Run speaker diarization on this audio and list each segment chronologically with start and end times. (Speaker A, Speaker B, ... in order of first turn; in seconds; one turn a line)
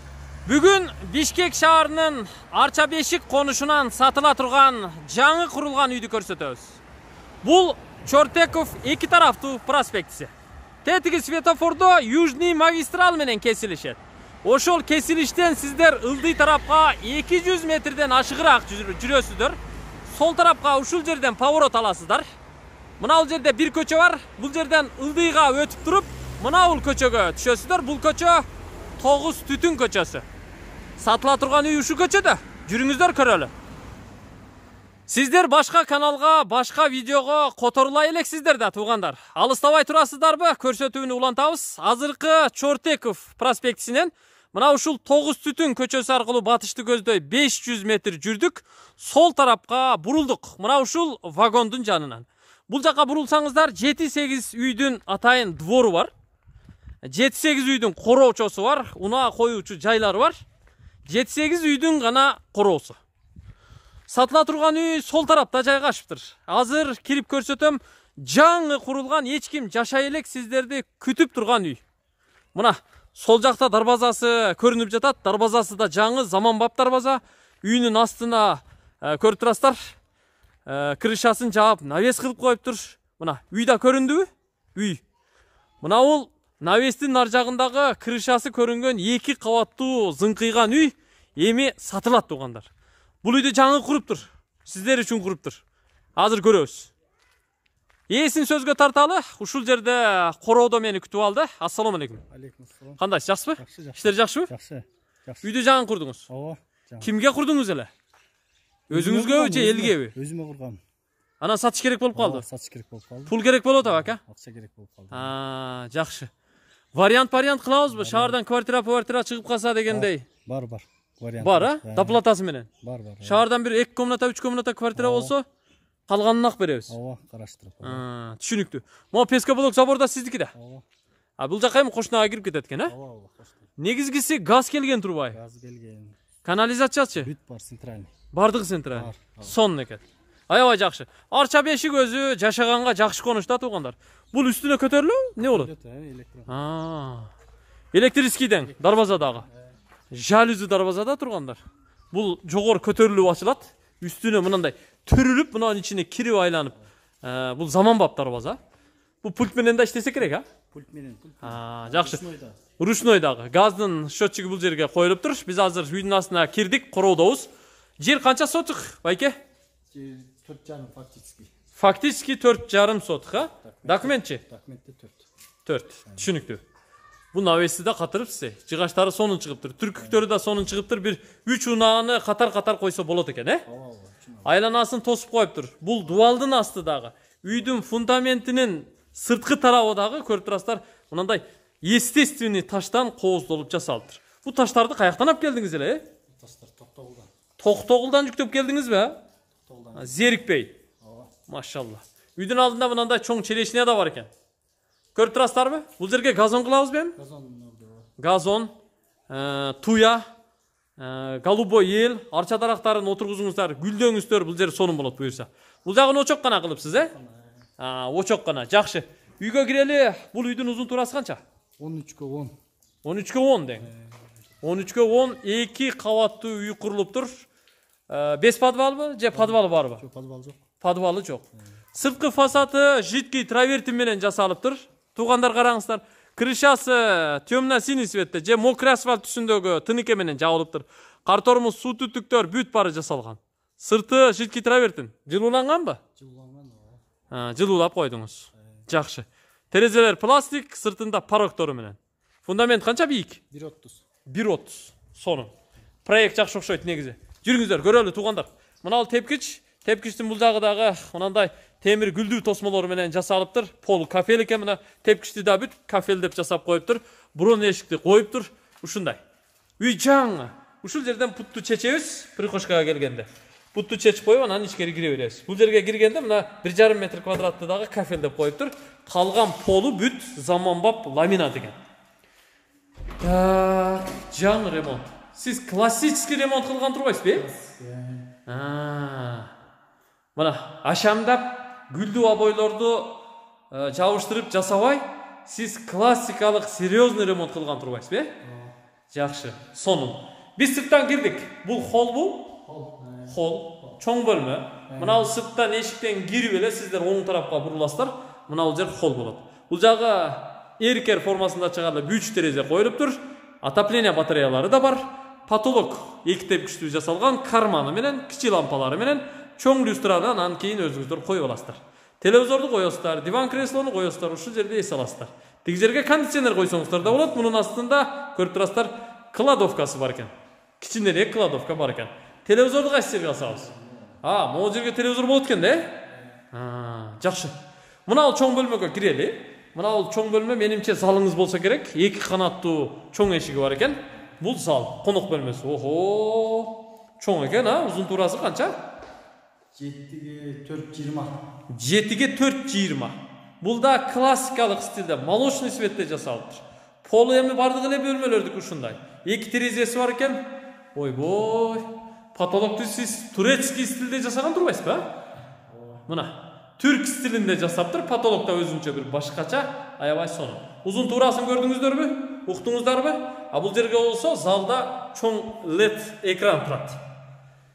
Speaker A: 0.4-6.8
Speaker A: 7.4-10.3
Speaker A: 10.8-22.2
Speaker A: 23.0-28.4
Speaker A: 29.0-30.2
Speaker A: 31.0-33.5
Speaker A: 35.1-56.1
Speaker A: 57.0-60.4
Speaker A: 61.1-63.0
Speaker A: 64.1-71.8
Speaker A: 72.5-79.9
Speaker A: 80.7-85.0
Speaker A: 85.8-92.7
Speaker A: 93.2-95.6
Speaker A: 96.2-96.9
Speaker A: 98.1-102.2
Speaker B: 102.3-103.0
Speaker A: 103.0-104.5
Speaker B: 103.5-105.5
Speaker A: 105.4-106.2
Speaker B: 106.3-107.1
Speaker A: 107.0-107.9
Speaker B: 108.9-110.8
Speaker A: 108.9-110.1
Speaker A: 111.4-112.4
Speaker B: 112.1-115.3
Speaker A: 113.3-114.2
Speaker A: 115.1-116.3
Speaker A: 116.9-120.2
Speaker B: 117.9-118.4
Speaker B: 119.9-122.2
Speaker A: 121.4-122.7
Speaker B: 122.8-123.4
Speaker A: 123.2-125.4
Speaker B: 124.9-125.3
Speaker A: 126.1-126.9
Speaker B: 126.9-128.0
Speaker A: 127.8-130.5
Speaker B: 130.5-130.8
Speaker A: 131.4-132.9
Speaker B: 132.8-133.7
Speaker A: 133.8-135.4
Speaker B: 135.3-136.2
Speaker A: 136.4-137.3
Speaker B: 137.2-138.1
Speaker A: 138.3-145.7
Speaker B: 138.9-139.5
Speaker B: 145.4-146.6
Speaker A: 146.5-147.3
Speaker A: 147.9-149.4
Speaker B: 148.6-149.8
Speaker A: 150.1-151.6
Speaker A: 152.1-158.6
Speaker A: 159.2-160.4
Speaker B: 160.7-162.6
Speaker A: 161.4-162.2
Speaker A: 162.8-169.3
Speaker B: 169.9-171.5
Speaker A: 171.8-174.4
Speaker B: 173.6-175.2
Speaker A: 175.7-176.6
Speaker B: 176.1-176.3
Speaker A: 177.3-183.6
Speaker B: 180.0-180.2
Speaker B: 183.7-184.5
Speaker A: 184.4-196.1
Speaker B: 196.3-197.3
Speaker A: 197.6-199.2
Speaker B: 199.6-200.2
Speaker A: 199.9-200.8
Speaker B: 201.0-201.3
Speaker A: 201.5-204.3
Speaker A: 205.1-207.2
Speaker B: 207.2-208.1
Speaker A: 208.2-208.7
Speaker A: 209.3-210.2
Speaker A: 211.0-217.1
Speaker B: 217.0-217.6
Speaker A: 217.8-221.4
Speaker B: 221.8-222.5
Speaker A: 223.0-223.9
Speaker B: 223.8-224.2
Speaker A: 224.6-227.4
Speaker A: 228.1-230.0
Speaker B: 229.3-230.6
Speaker A: 230.8-246.0
Speaker B: 246.2-247.0
Speaker A: 247.3-253.4
Speaker B: 248.6-248.8
Speaker B: 253.5-254.0
Speaker A: 254.3-255.5
Speaker A: 256.0-269.2
Speaker A: 269.8-281.8
Speaker A: 283.2-287.5
Speaker B: 287.3-288.3
Speaker A: 288.4-289.5
Speaker A: 290.4-293.2
Speaker A: 293.7-298.3
Speaker B: 298.4-298.7
Speaker A: 299.1-302.5
Speaker B: 302.6-303.9
Speaker A: 303.3-333.7
Speaker B: 304.9-305.3
Speaker B: 333.4-334.2
Speaker A: 334.2-335.9
Speaker B: 336.1-336.3
Speaker A: 336.5-337.5
Speaker A: 338.1-348.8
Speaker B: 349.7-351.4
Speaker A: 351.7-365.1
Speaker B: 365.7-366.0
Speaker A: 366.1-377.0